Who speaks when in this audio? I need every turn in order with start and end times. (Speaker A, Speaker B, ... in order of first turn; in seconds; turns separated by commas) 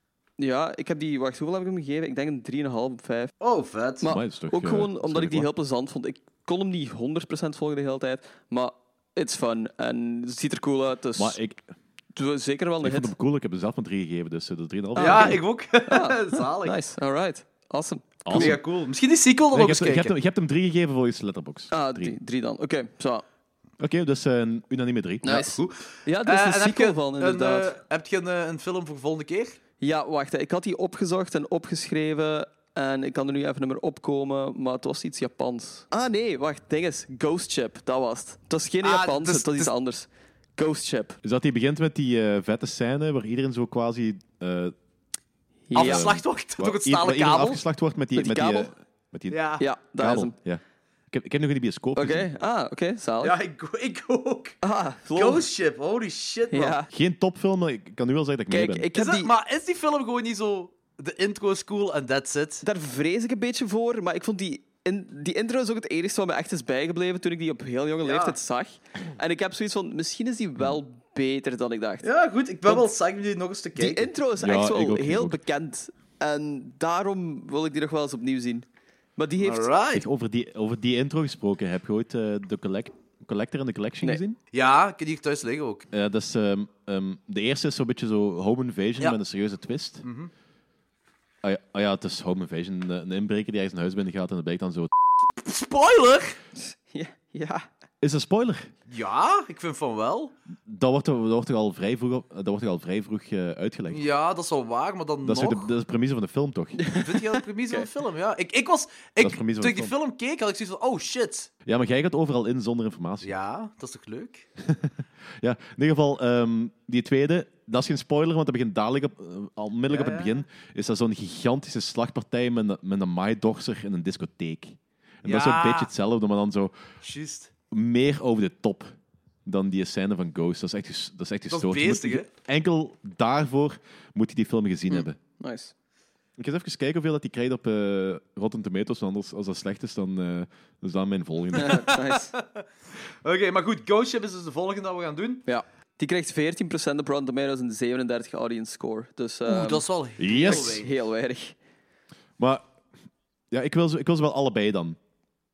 Speaker A: 0.4-3.3, Speaker B: 3.4-4.1, Speaker A: 4.0-11.4, Speaker C: 4.0-5.5, Speaker C: 11.2-11.7, Speaker A: 12.2-13.1, Speaker C: 12.8-15.4, Speaker A: 14.9-18.6, Speaker B: 15.0-16.8, Speaker C: 18.3-18.6, Speaker B: 18.3-20.1, Speaker C: 19.5-22.2, Speaker A: 21.7-23.2, Speaker C: 23.8-25.5, Speaker A: 25.2-27.7, Speaker B: 25.4-29.6, Speaker A: 29.8-41.2, Speaker B: 38.8-39.7, Speaker C: 41.2-44.8, Speaker A: 45.7-46.1, Speaker B: 45.7-47.6, Speaker C: 45.8-49.4, Speaker A: 48.2-48.7, Speaker B: 49.3-49.7, Speaker A: 49.6-50.3, Speaker C: 49.9-52.3, Speaker A: 52.0-53.4, Speaker B: 53.2-54.6, Speaker A: 54.6-55.5, Speaker B: 55.1-56.8, Speaker A: 56.5-56.9, Speaker C: 56.9-58.9, Speaker A: 58.5-59.3, Speaker B: 58.9-62.6, Speaker A: 62.6-72.0, Speaker B: 68.0-68.4, Speaker B: 72.0-74.1, Speaker A: 73.8-78.7, Speaker C: 74.4-75.4, Speaker A: 79.2-79.7, Speaker B: 79.4-80.0, Speaker C: 79.9-84.4, Speaker B: 84.5-85.9, Speaker C: 85.9-90.0, Speaker B: 90.0-90.3, Speaker C: 91.4-94.9, Speaker B: 95.3-96.4, Speaker A: 96.6-97.7, Speaker C: 98.0-98.7, Speaker B: 98.9-100.3, Speaker C: 100.7-104.0, Speaker B: 103.9-105.7, Speaker C: 105.2-106.8, Speaker A: 106.8-107.9, Speaker B: 107.0-111.5, Speaker C: 109.2-109.9, Speaker C: 111.7-113.3, Speaker B: 113.2-114.5, Speaker C: 114.7-126.7, Speaker B: 119.9-120.4, Speaker B: 125.2-125.9, Speaker B: 127.0-127.5, Speaker C: 127.7-128.9, Speaker C: 129.4-135.2, Speaker B: 131.5-132.3, Speaker A: 134.9-135.7, Speaker C: 136.4-141.8, Speaker B: 141.5-142.7, Speaker A: 141.6-142.3, Speaker B: 143.2-145.4, Speaker A: 145.5-151.6, Speaker B: 149.4-150.9, Speaker C: 150.2-150.8, Speaker C: 152.4-152.7, Speaker C: 153.5-155.0